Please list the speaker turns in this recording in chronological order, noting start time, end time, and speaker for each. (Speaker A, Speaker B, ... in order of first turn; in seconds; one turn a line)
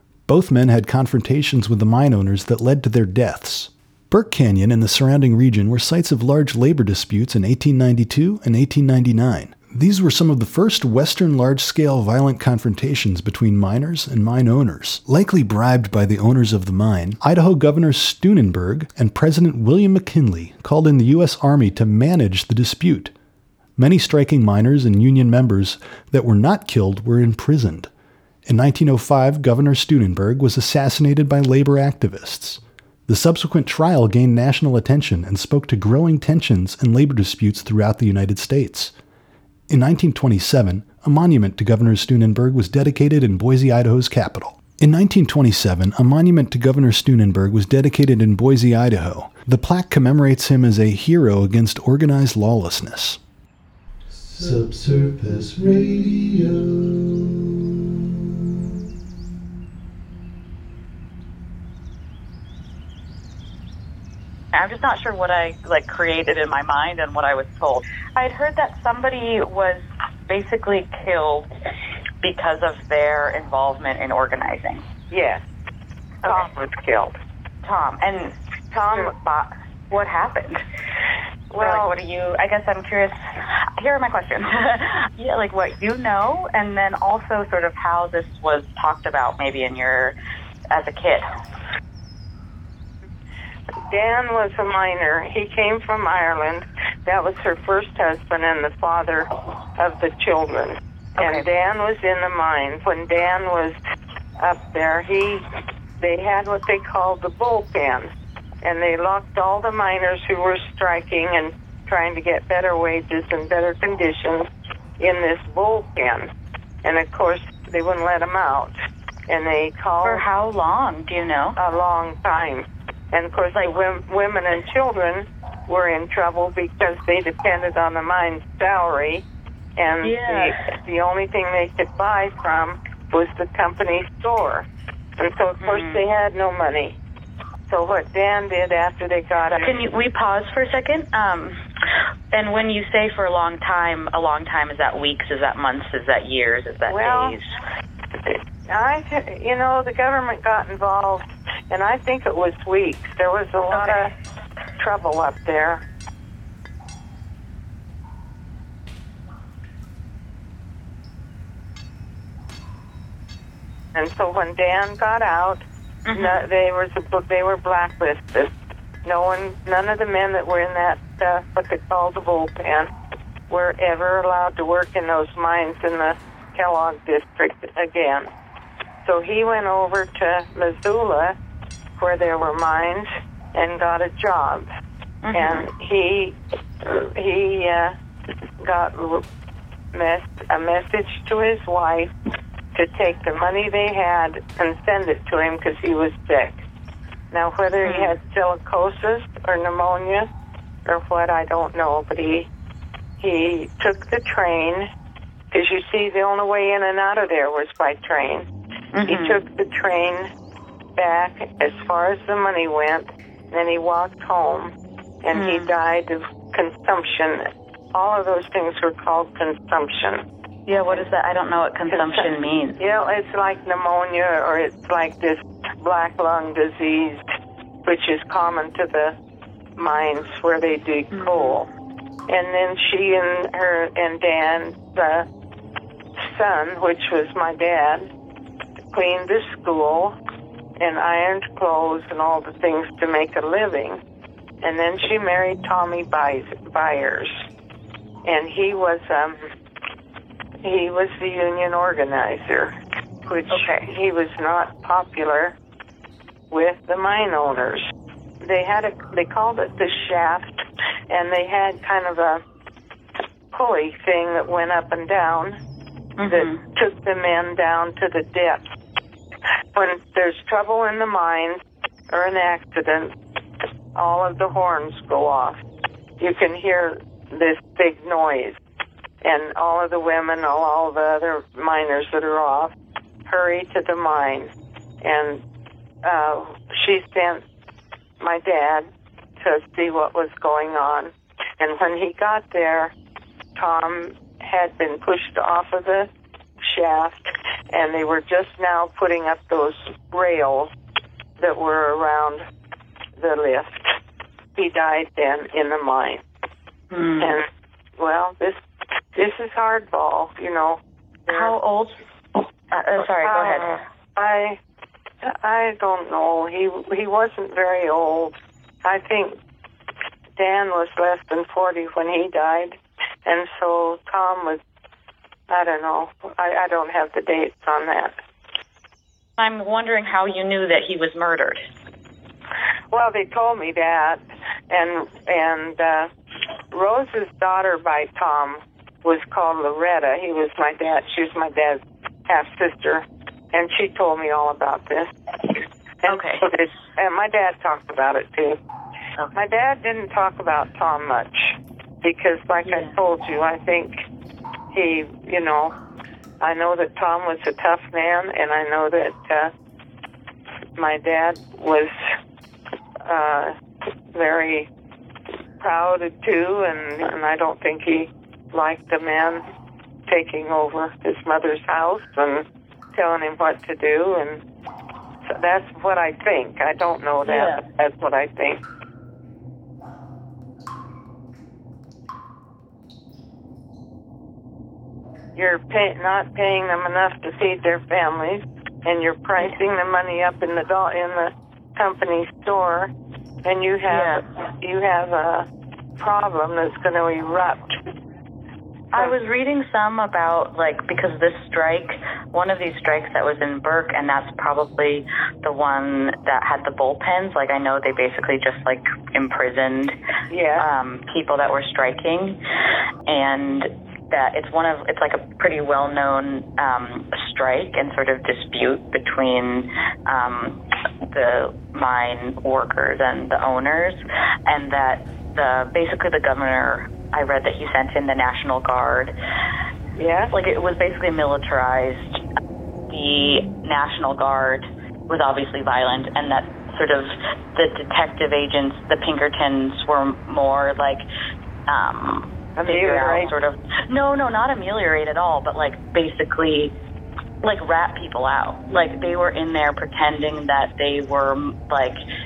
Speaker A: 0.3-23.1
Speaker A: 23.8-27.9
Speaker A: 28.4-38.9
Speaker A: 39.7-53.2
Speaker A: 54.1-57.3
Speaker B: 64.5-71.5
Speaker B: 72.2-74.8
Speaker C: 75.1-75.4
Speaker C: 76.2-77.2
Speaker B: 77.6-78.3
Speaker C: 78.7-79.1
Speaker B: 78.9-80.6
Speaker C: 81.5-81.9
Speaker B: 81.6-83.2
Speaker B: 83.8-90.2
Speaker B: 90.7-91.2
Speaker C: 93.9-103.8
Speaker B: 101.2-101.5
Speaker C: 104.4-105.4
Speaker C: 106.0-108.1
Speaker C: 108.6-114.5
Speaker C: 115.0-116.3
Speaker C: 116.8-118.7
Speaker C: 119.3-120.2
Speaker B: 120.0-121.6
Speaker C: 121.6-129.2
Speaker C: 129.8-134.7
Speaker B: 130.0-130.7
Speaker C: 135.2-137.0
Speaker B: 135.6-136.0
Speaker C: 137.7-139.8
Speaker B: 139.6-141.6
Speaker B: 142.3-147.4
Speaker C: 146.9-147.4
Speaker C: 148.2-154.1
Speaker B: 153.7-154.1
Speaker C: 154.8-155.8
Speaker C: 163.9-165.6
Speaker B: 166.1-166.4
Speaker C: 166.1-168.5
Speaker C: 169.0-172.9
Speaker C: 173.5-178.3
Speaker C: 179.0-181.3
Speaker C: 182.0-184.7
Speaker B: 185.2-185.7
Speaker C: 185.3-187.9
Speaker C: 188.6-189.2
Speaker C: 189.9-192.1
Speaker C: 192.7-196.6
Speaker C: 197.3-200.3
Speaker B: 197.8-198.1
Speaker C: 200.8-202.5
Speaker C: 203.2-204.9
Speaker C: 205.5-208.5
Speaker B: 208.9-209.4
Speaker C: 209.0-210.3
Speaker C: 210.9-214.7
Speaker C: 215.2-220.2
Speaker B: 215.3-215.7
Speaker B: 220.7-222.8
Speaker C: 221.9-227.2
Speaker C: 227.8-229.1
Speaker C: 229.8-231.7
Speaker B: 231.1-231.6
Speaker C: 232.3-235.3
Speaker C: 236.2-238.1
Speaker C: 238.9-240.1
Speaker C: 240.8-244.0
Speaker C: 244.6-247.3
Speaker C: 248.2-249.4
Speaker C: 250.6-252.7
Speaker C: 253.2-255.6
Speaker B: 253.5-253.9
Speaker C: 256.5-257.8
Speaker C: 258.4-262.4
Speaker C: 263.5-265.6
Speaker B: 266.2-266.6
Speaker C: 266.2-268.7
Speaker C: 269.7-273.1
Speaker C: 273.9-275.6
Speaker C: 276.2-278.6
Speaker C: 279.2-282.7
Speaker C: 283.2-285.4
Speaker C: 286.0-287.4
Speaker C: 288.2-288.9
Speaker C: 289.4-292.9
Speaker C: 293.6-296.1
Speaker C: 296.6-300.7
Speaker C: 301.4-302.4
Speaker C: 303.2-303.9
Speaker C: 304.6-306.2
Speaker B: 306.9-307.4
Speaker C: 308.0-308.6
Speaker C: 309.1-311.5
Speaker B: 311.3-312.0
Speaker B: 312.7-313.8
Speaker C: 313.2-314.6
Speaker C: 315.2-319.4
Speaker C: 320.4-324.6
Speaker C: 325.5-328.1
Speaker B: 329.4-331.6
Speaker C: 332.9-336.1
Speaker C: 336.7-345.1
Speaker C: 346.0-348.6
Speaker B: 346.1-346.5
Speaker C: 349.3-354.0
Speaker B: 352.6-352.9
Speaker C: 354.7-355.7
Speaker C: 356.4-359.5
Speaker C: 360.8-361.9
Speaker C: 363.1-363.5
Speaker C: 364.1-364.7
Speaker C: 365.6-369.4
Speaker C: 370.1-374.4
Speaker C: 375.2-378.6
Speaker B: 377.2-377.6
Speaker C: 385.3-392.9
Speaker C: 393.4-395.5
Speaker B: 393.9-394.2
Speaker C: 396.0-397.8
Speaker B: 398.9-409.9
Speaker C: 410.3-410.7
Speaker B: 410.6-412.4
Speaker B: 413.1-423.9
Speaker B: 424.5-429.1
Speaker C: 430.0-430.3
Speaker B: 430.3-432.2
Speaker B: 432.9-441.0
Speaker B: 441.7-446.7
Speaker C: 442.6-443.3
Speaker B: 447.4-451.9